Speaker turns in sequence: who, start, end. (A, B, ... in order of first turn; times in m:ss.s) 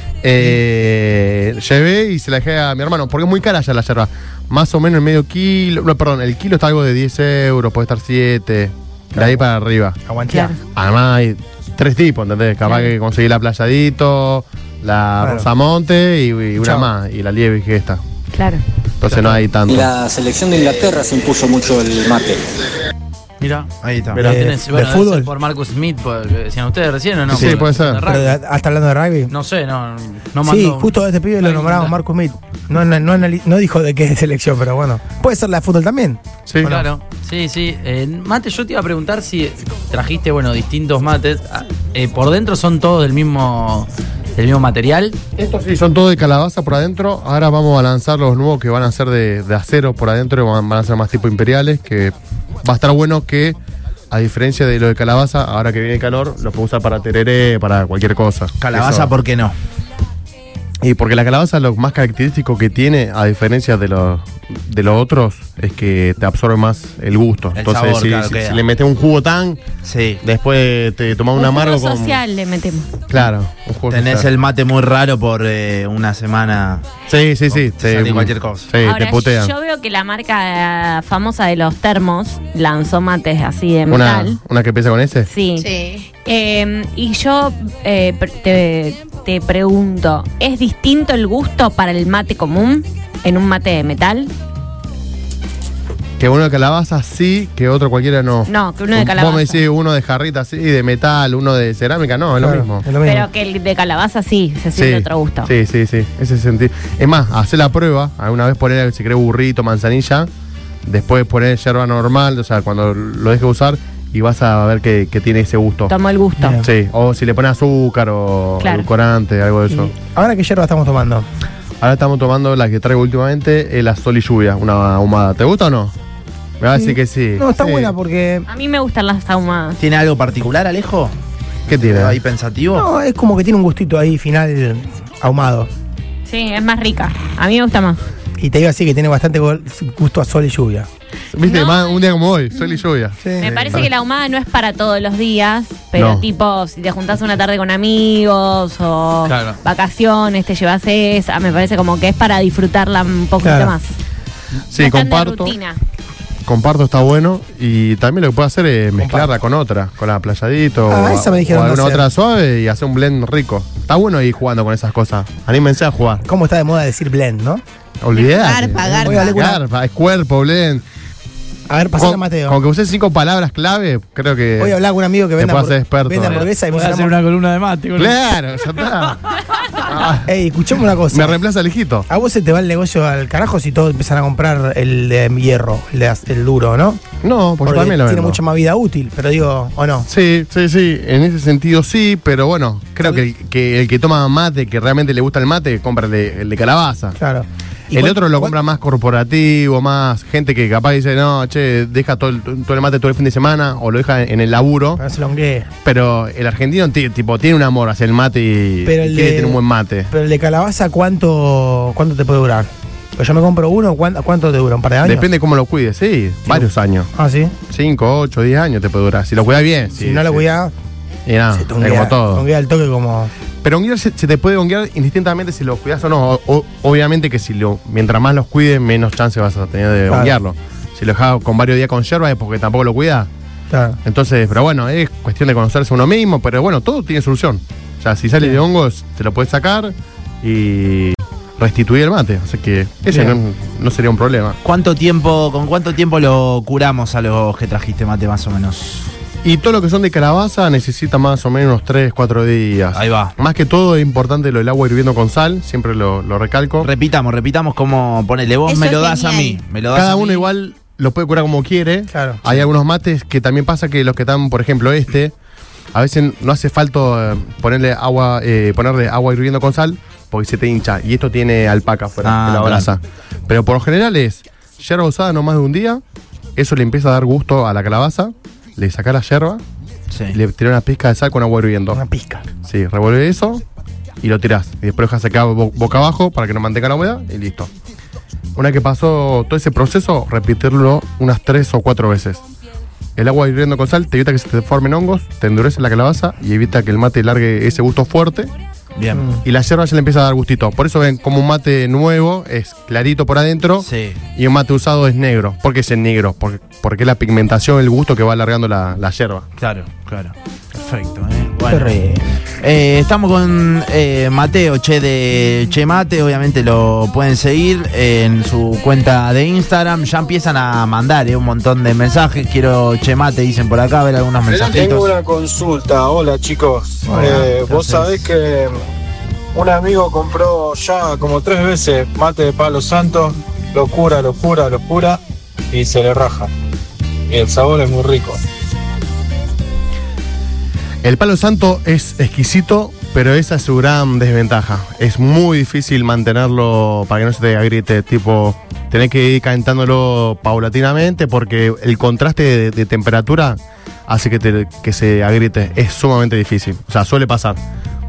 0:00.2-0:10.0 A
0:09.1-0:09.4 B
0:10.0-0:10.5 B
0:10.3-0:10.6 C
0:10.7-0:18.0 A
0:15.2-0:15.5 B
0:16.6-0:16.9 B
0:18.3-0:18.6 C
0:19.0-0:19.9 A
0:19.7-0:22.5 D
0:23.4-0:28.4 E
0:23.8-0:24.2 F
0:24.1-0:25.3 B
0:27.3-0:28.0 A
0:28.0-0:29.3 B
0:29.3-0:32.0 E
0:30.4-0:36.8 B
0:36.5-0:36.8 A
0:36.6-0:45.2 E
0:45.4-0:53.6 A
0:54.1-0:59.1 A
0:58.6-0:59.5 F
1:00.8-1:09.6 A
1:07.5-1:08.6 F
1:09.8-1:10.2 F
1:10.2-1:12.2 A
1:11.4-1:12.9 C
1:13.1-1:14.3 A
1:13.9-1:16.8 F
1:17.1-1:19.5 A
1:17.6-1:18.7 F
1:18.8-1:24.4 C
1:23.9-1:25.3 A
1:25.3-1:25.7 C
1:25.6-1:26.1 G
1:26.2-1:34.3 C
1:36.2-1:42.9 A
1:38.5-1:39.6 C
1:42.4-1:43.3 B
1:43.0-1:45.5 C
1:44.7-1:50.3 A
1:50.8-1:55.9 A
1:55.9-1:56.6 C
1:56.4-1:56.6 B
1:56.6-1:59.9 A
1:58.6-1:58.9 C
1:59.7-2:01.2 B
2:01.8-2:05.9 A
2:06.6-2:07.9 A
2:06.7-2:08.5 B
2:08.5-2:09.8 C
2:09.8-2:11.1 F
2:11.7-2:12.2 A
2:11.7-2:12.9 F
2:12.7-2:15.7 B
2:16.2-2:18.0 C
2:18.4-2:20.9 B
2:21.3-2:23.9 A
2:21.4-2:22.0 C
2:23.2-2:23.8 B
2:23.4-2:33.9 C
2:25.9-2:26.2 A
2:29.2-2:29.6 E
2:33.4-2:33.7 B
2:34.7-2:35.6 A
2:34.7-2:35.8 C
2:36.4-2:46.2 A
2:39.0-2:39.3 B
2:40.9-2:42.1 B
2:46.2-2:47.6 B
2:48.0-2:50.8 A
2:48.1-2:49.4 G
2:48.8-2:49.6 B
2:51.7-2:52.6 B
2:52.0-2:54.8 A
2:54.6-2:57.2 B
2:55.4-2:56.5 A
2:56.3-2:58.2 E
2:58.0-2:59.2 A
2:58.7-2:59.0 E
2:59.8-3:00.3 A
3:00.2-3:01.4 B
3:01.1-3:02.1 A
3:02.1-3:07.0 B
3:07.2-3:08.4 A
3:07.6-3:10.1 B
3:10.1-3:17.2 A
3:17.2-3:18.5 B
3:17.9-3:25.0 A
3:25.0-3:25.7 B
3:25.8-3:30.1 A
3:28.8-3:35.3 B
3:35.0-3:37.1 A
3:36.4-3:37.5 B
3:37.7-3:40.4 A
3:40.0-3:40.7 B
3:41.2-3:42.4 A
3:41.5-3:43.3 B
3:43.6-3:53.3 A
3:50.1-3:50.4 B
3:53.7-3:54.0 B
3:54.0-4:04.6 A
4:03.1-4:03.4 B
4:04.6-4:09.1 F
4:09.4-4:16.9 A
4:12.9-4:13.3 F
4:16.8-4:20.5 F
4:18.6-4:19.6 G
4:19.9-4:25.3 A
4:22.1-4:22.4 B
4:25.9-4:36.0 A
4:32.2-4:32.9 F
4:36.6-4:39.6 A
4:40.1-4:40.4 F
4:40.3-4:42.0 A
4:41.9-4:42.4 B
4:42.6-4:43.6 A
4:44.2-4:47.7 A
4:48.6-4:52.4 A
4:53.2-4:58.5 A
4:59.0-4:59.3 F
4:59.1-4:59.4 B
4:59.4-5:09.4 A
5:03.8-5:04.2 F
5:09.6-5:25.1 F
5:11.7-5:12.2 B
5:24.4-5:28.8 H
5:27.0-5:27.4 B
5:27.1-5:28.3 F
5:29.5-5:35.2 H
5:35.7-5:36.5 H
5:37.3-5:38.4 H
5:41.0-5:57.6 A